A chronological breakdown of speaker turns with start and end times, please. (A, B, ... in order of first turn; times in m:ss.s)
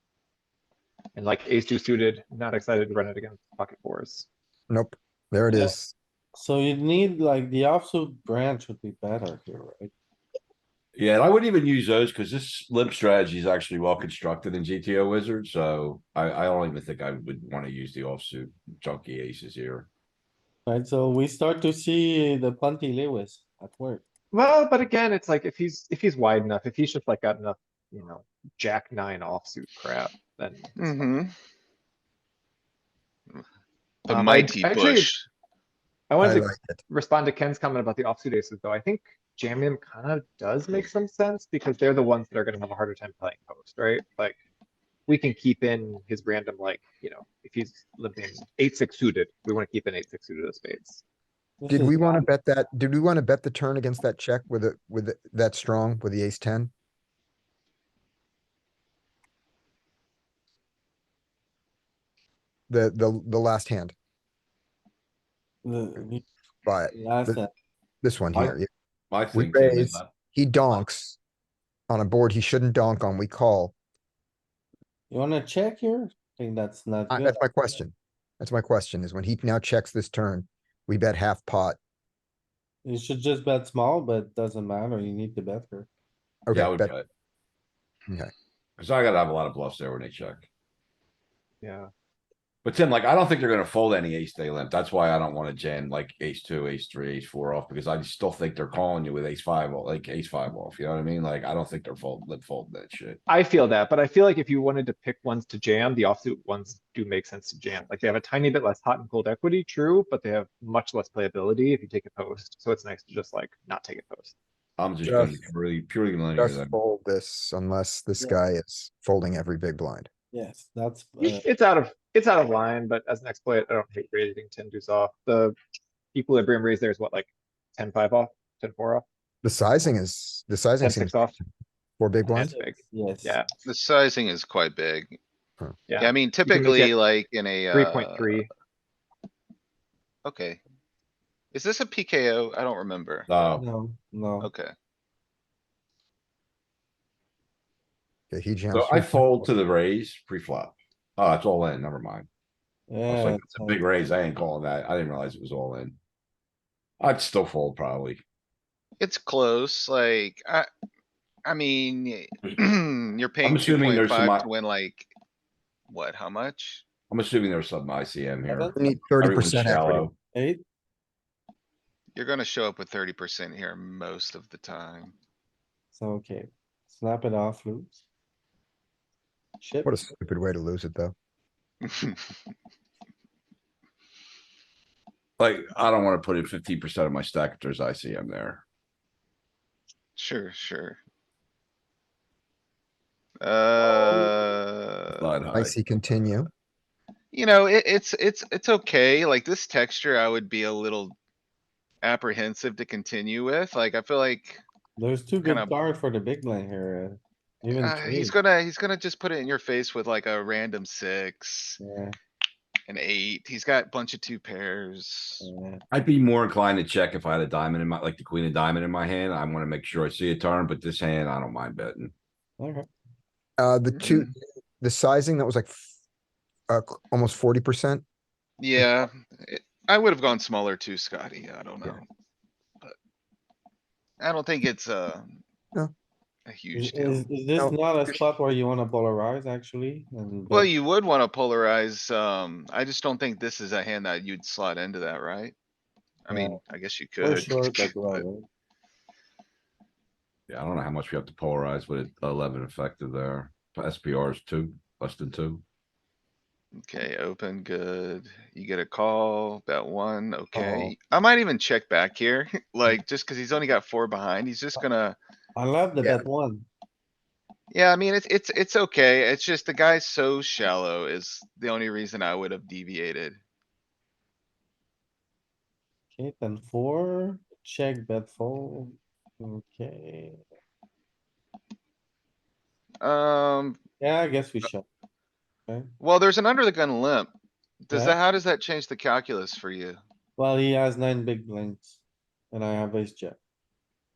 0:01.1-0:04.3 A
0:04.7-0:05.9 B
0:06.3-0:09.9 C
0:10.9-0:19.9 D
0:20.6-0:24.0 C
0:24.3-0:31.1 A
0:30.8-0:31.3 E
0:34.0-0:35.2 E
0:34.1-0:35.1 A
0:36.1-0:44.4 A
0:36.2-0:36.8 B
0:45.1-0:51.0 A
0:51.6-0:52.3 C
0:51.7-0:56.7 B
1:02.7-1:03.9 B
1:05.6-1:06.2 C
1:06.6-1:07.4 B
1:06.9-1:07.5 C
1:08.0-1:08.7 B
1:09.1-1:10.1 D
1:09.3-1:11.2 B
1:11.9-1:13.7 B
1:15.1-1:17.8 C
1:17.1-1:21.8 B
1:22.8-1:25.9 C
1:26.5-1:26.9 B
1:26.5-1:27.1 D
1:28.8-1:30.5 D
1:31.6-1:31.9 A
1:32.6-1:43.2 D
1:43.3-1:54.3 A
1:54.8-1:56.7 D
1:55.0-1:55.4 B
1:56.4-2:00.1 B
2:00.3-2:01.4 C
2:01.2-2:05.6 A
2:06.1-2:09.0 A
2:09.4-2:11.4 B
2:10.8-2:11.4 A
2:12.0-2:12.5 B
2:12.3-2:13.4 A
2:12.3-2:13.4 C
2:13.6-2:15.2 E
2:15.9-2:16.9 A
2:16.0-2:18.4 E
2:16.4-2:16.9 C
2:17.7-2:18.5 A
2:20.2-2:20.6 E
2:21.5-2:23.3 E
2:23.3-2:23.6 D
2:23.4-2:24.5 C
2:24.4-2:24.7 E
2:28.3-2:29.4 B
2:28.7-2:32.3 D
2:32.9-2:33.8 C
2:33.1-2:36.0 D
2:37.0-2:38.2 D
2:39.0-2:40.7 E
2:41.4-2:45.1 E
2:43.4-2:44.5 D
2:45.9-2:46.8 E
2:47.1-2:50.2 D
2:48.5-2:49.0 C
2:48.8-2:50.1 B
2:50.3-2:50.6 C
2:52.1-2:55.1 E
2:55.9-2:58.0 C
2:59.6-3:00.0 C
2:59.8-3:01.1 B
3:01.9-3:02.2 E
3:05.4-3:08.6 D
3:10.2-3:11.0 E
3:13.4-3:15.2 E
3:15.2-3:15.7 D
3:15.5-3:16.5 B
3:17.3-3:21.2 E
3:22.0-3:24.6 E
3:25.0-3:28.3 C
3:25.4-3:25.7 E
3:27.7-3:31.8 E
3:31.8-3:32.1 C
3:32.9-3:35.5 E
3:35.4-3:35.8 C
3:35.9-3:42.1 D
3:42.6-3:42.9 C
3:43.6-3:45.9 B
3:43.9-3:44.3 E
3:46.7-3:48.0 B
3:48.6-3:52.0 E
3:54.2-3:55.4 E
3:56.5-3:57.2 E
3:56.7-4:00.7 C
4:00.5-4:05.5 E
4:06.2-4:08.2 E
4:06.3-4:06.6 C
4:07.2-4:08.4 C
4:10.5-4:15.6 D
4:16.8-4:25.2 E
4:20.5-4:20.9 B
4:25.6-4:26.7 C
4:27.7-4:33.4 E
4:36.1-4:40.4 C
4:43.0-4:43.8 E
4:44.0-4:44.8 C
4:45.7-4:45.9 C
4:46.0-4:47.3 E
4:47.8-4:50.0 E
4:47.9-4:48.2 C
4:50.4-4:52.0 C
4:52.5-4:53.4 C